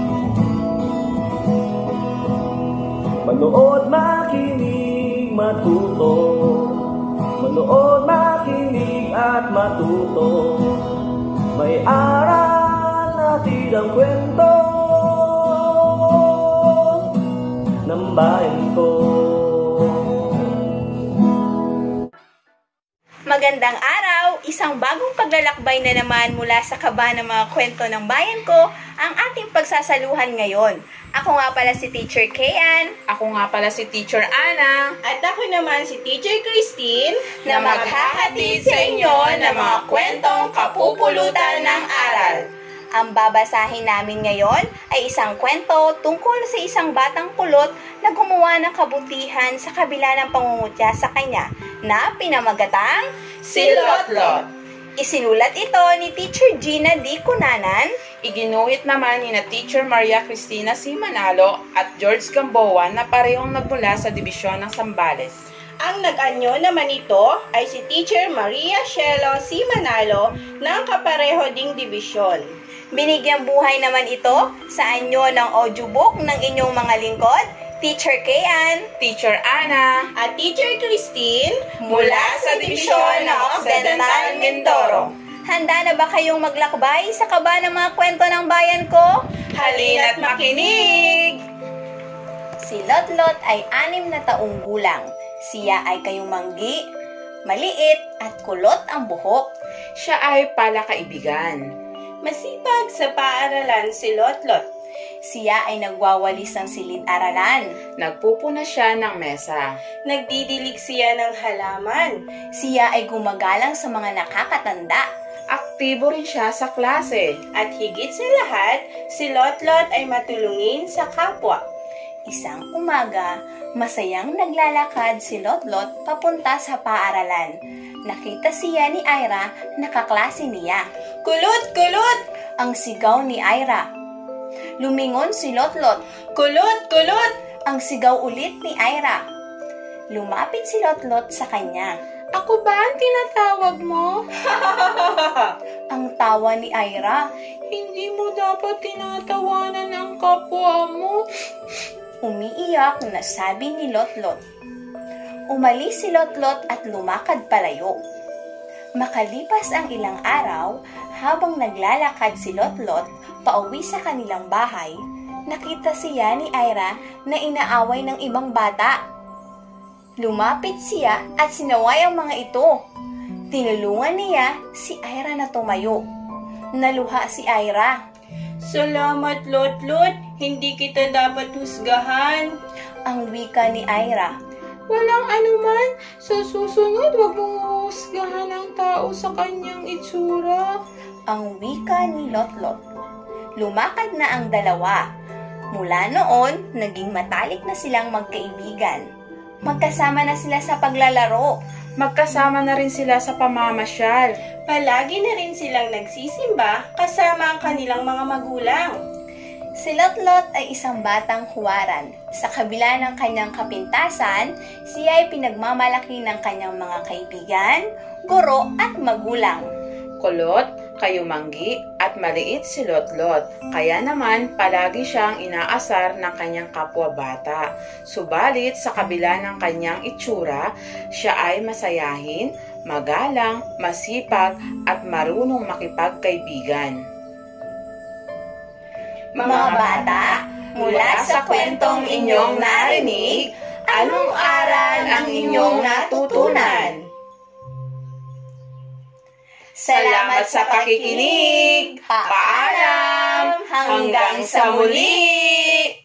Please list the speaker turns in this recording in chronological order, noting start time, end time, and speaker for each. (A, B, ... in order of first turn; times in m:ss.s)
0:03.2-0:17.1 A
0:17.8-0:20.2 A
0:23.3-0:32.9 B
0:33.1-0:34.9 C
0:35.0-0:38.4 D
0:37.4-0:42.4 B
0:37.5-0:42.3 C
0:39.9-0:41.3 D
0:42.0-0:42.4 D
0:42.9-0:53.1 B
0:53.5-0:54.4 C
0:53.5-0:54.4 D
0:55.0-0:57.9 B
0:58.2-1:05.3 C
1:05.8-1:12.4 D
1:12.9-1:18.9 B
1:19.0-1:20.1 C
1:20.2-1:24.1 D
1:21.8-1:29.1 B
1:21.9-1:25.1 C
1:29.5-1:31.0 D
1:29.6-1:31.4 C
1:32.6-1:36.8 B
1:37.4-1:39.4 B
1:40.0-1:41.6 C
1:42.2-1:44.6 D
1:45.2-1:47.6 B
1:48.0-1:49.6 C
1:50.1-1:52.2 D
1:52.6-1:55.0 B
1:55.5-1:57.3 C
1:57.5-2:01.6 D
2:02.3-2:07.5 B
2:08.0-2:10.8 B
2:11.2-2:12.2 D
2:12.6-2:13.8 B
2:14.8-2:16.0 B
2:16.3-2:17.3 D
2:17.7-2:19.2 B
2:20.1-2:21.9 B
2:22.3-2:24.2 C
2:24.4-2:25.5 D
2:25.9-2:27.2 B
2:27.7-2:31.2 C
2:32.2-2:34.4 B
2:35.5-2:38.0 B
2:39.0-2:44.9 B
2:45.5-2:49.0 B
2:50.2-2:52.8 B
2:53.5-2:56.0 B
2:56.8-2:58.0 B
2:58.6-3:02.5 D
3:03.1-3:04.3 B
3:04.9-3:10.8 C
3:11.3-3:12.8 B
3:13.6-3:15.0 B
3:15.7-3:19.0 B
3:19.6-3:21.5 B
3:22.0-3:24.3 C
3:24.7-3:29.0 D
3:29.8-3:39.6 B
3:40.2-3:57.0 C
3:59.4-4:00.2 C
3:59.4-4:06.9 B
4:00.8-4:06.9 C
4:06.4-4:07.0 D
4:09.8-4:15.8 B
4:09.9-4:15.8 C